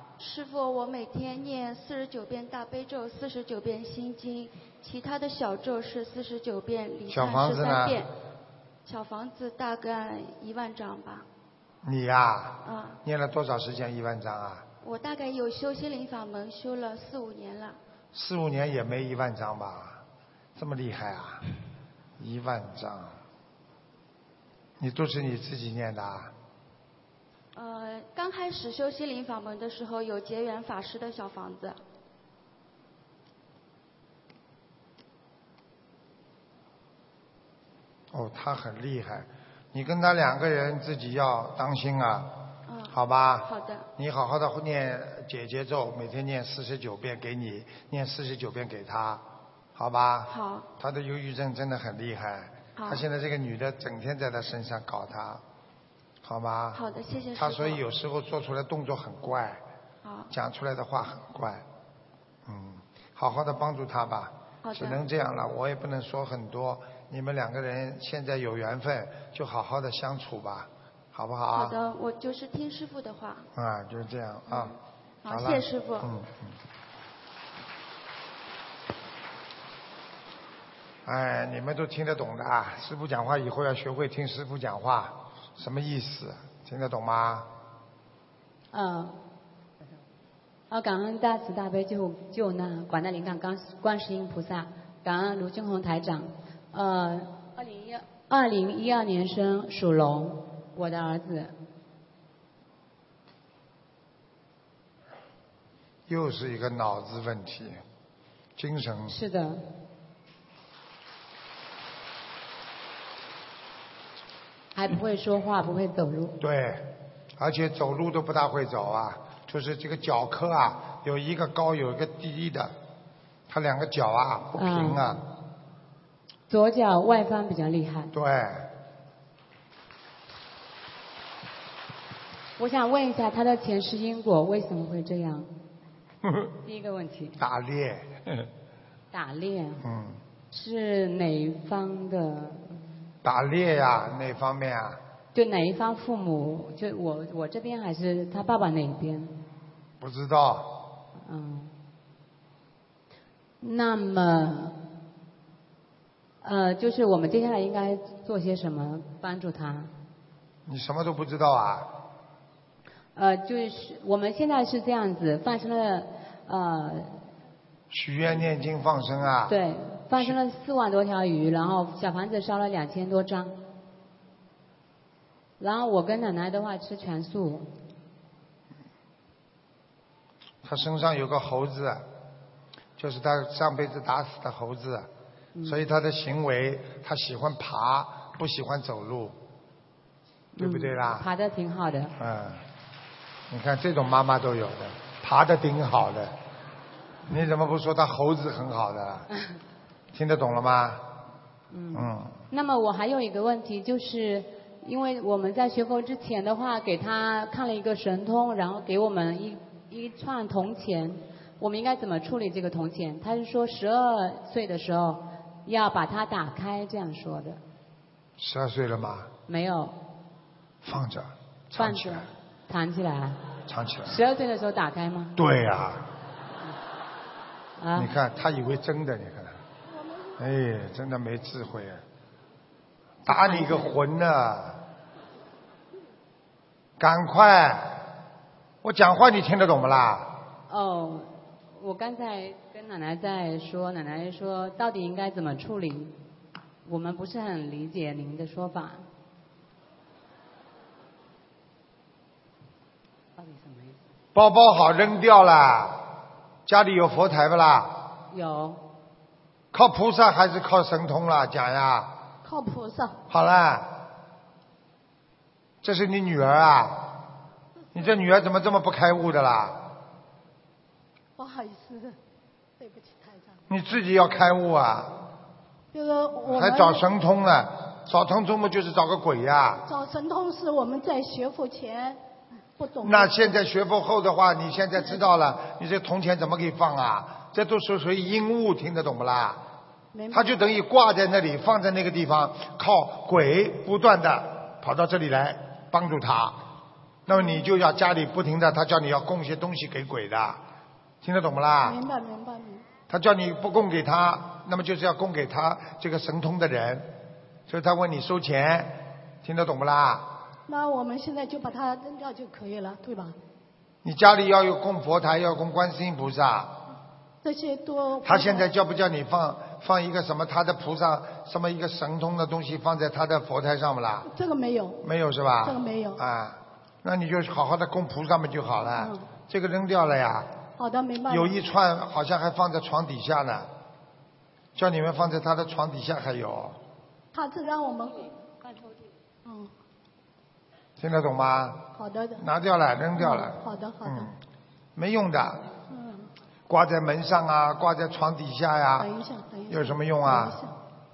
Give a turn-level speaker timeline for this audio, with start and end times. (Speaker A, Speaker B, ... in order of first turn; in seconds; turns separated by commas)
Speaker A: 0.2-8.1, Speaker B: 7.1-8.0, Speaker A: 8.8-11.2, Speaker B: 11.8-14.7, Speaker A: 12.6-13.0, Speaker A: 14.8-17.8, Speaker B: 18.1-20.0, Speaker B: 20.6-21.5, Speaker B: 22.2-23.2, Speaker B: 24.8-26.3, Speaker A: 27.5-31.8, Speaker B: 38.1-42.3, Speaker A: 42.7-42.9, Speaker B: 42.9-49.2, Speaker A: 43.5-43.9, Speaker B: 49.7-55.4, Speaker A: 50.3-50.7, Speaker B: 56.2-56.8, Speaker A: 56.9-57.7, Speaker B: 57.4-59.6, Speaker B: 60.3-61.6, Speaker B: 62.5-71.8, Speaker A: 64.6-64.9, Speaker A: 71.5-73.5, Speaker B: 73.5-74.7, Speaker A: 75.2-76.0, Speaker B: 75.3-76.5, Speaker B: 81.0-87.5, Speaker C: 88.7-89.2, Speaker C: 90.7-101.5, Speaker B: 106.1-107.8, Speaker B: 108.6-109.2, Speaker C: 109.1-109.7, Speaker C: 114.7-116.4, Speaker B: 116.4-122.7, Speaker B: 123.5-125.2, Speaker C: 124.5-125.1, Speaker C: 126.5-128.1, Speaker B: 128.1-128.7, Speaker C: 132.6-135.5, Speaker C: 136.6-137.4, Speaker B: 137.4-138.5, Speaker C: 139.1-139.8, Speaker B: 139.8-140.2, Speaker C: 140.5-142.8, Speaker B: 143.2-145.0, Speaker C: 145.3-149.4, Speaker B: 150.0-150.9, Speaker C: 151.2-151.8, Speaker C: 153.6-154.8, Speaker C: 156.4-159.9, Speaker B: 160.7-161.9, Speaker C: 163.1-167.3, Speaker B: 167.9-169.6, Speaker C: 169.4-173.6, Speaker C: 175.6-177.7, Speaker B: 180.6-182.1, Speaker B: 183.0-185.1, Speaker C: 185.5-185.8, Speaker B: 185.6-189.4, Speaker C: 190.5-192.1, Speaker B: 190.6-191.3, Speaker B: 192.2-192.6, Speaker B: 193.5-196.3, Speaker B: 197.3-199.3, Speaker B: 200.1-201.0, Speaker C: 201.7-217.6, Speaker B: 201.9-202.4, Speaker B: 218.4-219.3, Speaker C: 219.5-220.0, Speaker B: 220.8-222.3, Speaker C: 221.8-223.4, Speaker B: 223.7-224.2, Speaker C: 224.0-225.4, Speaker B: 225.3-226.1, Speaker C: 227.8-228.1, Speaker B: 227.9-229.6, Speaker B: 230.3-232.0, Speaker B: 233.2-234.8, Speaker C: 233.3-233.9, Speaker B: 237.0-238.0, Speaker B: 238.8-240.4, Speaker C: 240.7-246.2, Speaker C: 246.8-249.1, Speaker C: 253.4-254.0, Speaker B: 254.3-256.1, Speaker B: 256.6-258.1, Speaker C: 258.3-258.8, Speaker B: 259.7-262.1, Speaker D: 262.4-263.1, Speaker B: 263.3-264.0, Speaker B: 265.8-267.2, Speaker B: 267.9-269.9, Speaker D: 271.4-272.1, Speaker D: 272.8-273.6, Speaker B: 273.7-275.2, Speaker D: 275.9-277.0, Speaker B: 276.5-279.9, Speaker D: 279.9-282.2, Speaker D: 282.8-283.4, Speaker B: 283.0-289.6, Speaker D: 290.1-290.4, Speaker B: 290.3-296.6, Speaker B: 297.2-300.6, Speaker B: 301.2-302.0, Speaker D: 301.9-302.8, Speaker B: 303.1-307.1, Speaker B: 307.7-310.3, Speaker D: 310.7-313.3, Speaker B: 314.0-316.7, Speaker D: 317.4-318.7, Speaker B: 318.2-324.3, Speaker D: 324.3-325.0, Speaker B: 325.0-330.5, Speaker D: 325.6-326.2, Speaker D: 330.8-331.4, Speaker B: 331.3-333.7, Speaker B: 334.7-336.8, Speaker D: 337.3-338.3, Speaker D: 339.4-339.7, Speaker B: 341.0-341.8, Speaker D: 341.9-342.4, Speaker B: 342.4-344.4, Speaker D: 343.2-344.3, Speaker B: 344.9-345.7, Speaker D: 345.9-346.3, Speaker B: 346.7-349.1, Speaker D: 349.0-350.7, Speaker B: 349.7-350.6